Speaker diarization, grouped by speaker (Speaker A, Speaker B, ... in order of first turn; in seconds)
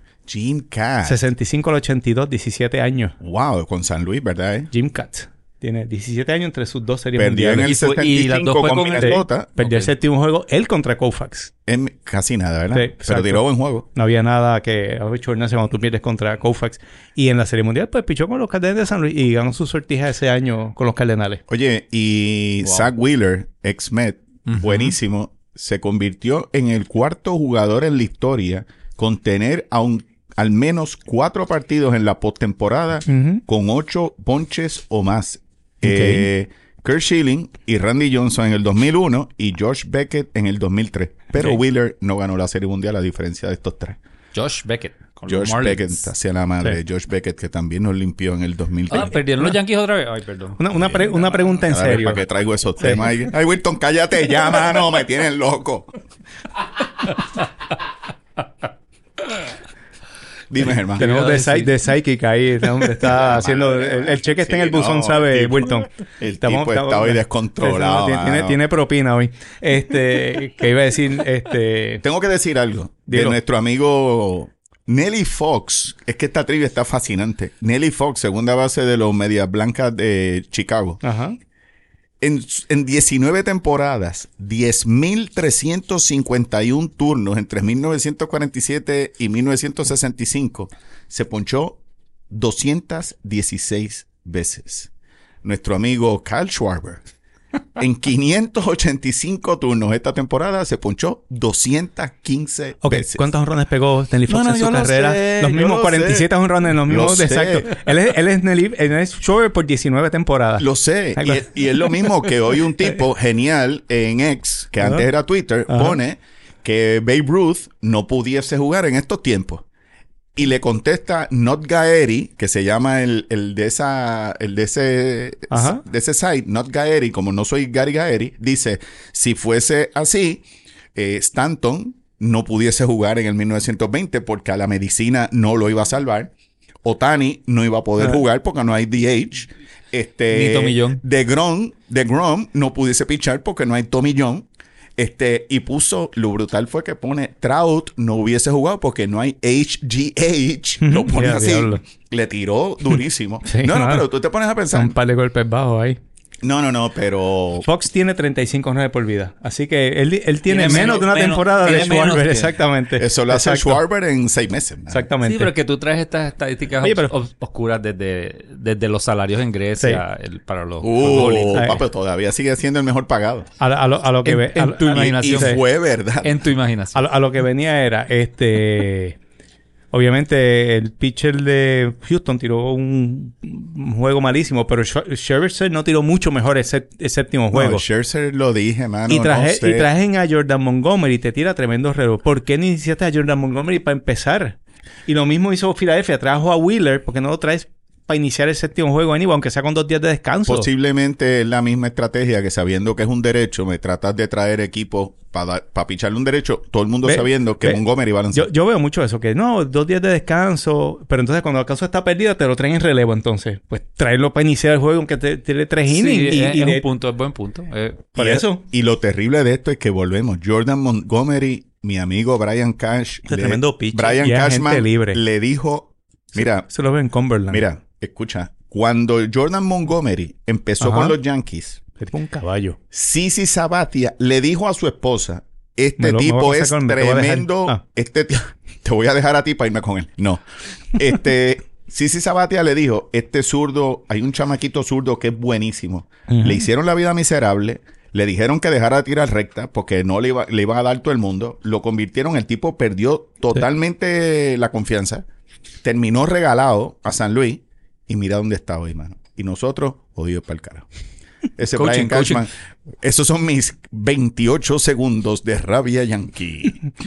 Speaker A: 0.3-1.2, 3.2-4.7, 7.2-9.5, 11.7-13.8, 21.5-44.0, 45.3-49.2, 51.5-55.9, 60.5-61.2, 63.0-68.6, 72.0-81.0, 82.2-91.8, 92.3-94.9, 95.4-97.0, 97.8-103.3, 104.3-107.7, 110.6-119.7, 120.3-136.3, 136.8-144.5, 145.0-155.0, 156.4-157.7, 163.0-165.1, 170.8-173.5, 174.9-176.3, 187.5-189.9, 200.5-208.5, 218.2-226.7, 227.5-231.8, 232.9-255.2, 255.8-260.9, 261.6-266.9
Speaker B: 1.0-3.1, 4.7-7.7, 8.9-11.5, 12.7-21.4, 33.1-33.4, 35.8-36.3, 50.6-52.3, 52.8-53.1, 61.0-65.9, 66.4-72.0, 73.1-73.4, 81.0-81.4, 102.8-111.5, 114.8-115.1, 115.7-116.0, 125.5-125.8, 150.8-151.8, 153.4-154.1, 154.7-156.0, 157.6-163.8, 164.9-165.5, 166.8-167.1, 171.5-171.8, 173.6-175.6, 176.9-179.2, 179.9-187.8, 189.1-200.7, 207.0-207.8, 208.3-216.8, 218.2-218.6, 223.3-225.2, 226.4-227.7, 230.8-231.2, 232.0-232.8, 236.0-237.8, 246.3-246.7
Speaker C: 7.6-9.9, 22.6-22.9, 24.5-25.0, 44.3-46.1, 48.9-50.7, 60.7-61.9, 140.3-141.0, 160.5-162.6, 165.2-171.8, 174.2-175.7, 176.2-177.1, 215.9-218.1, 261.7-262.5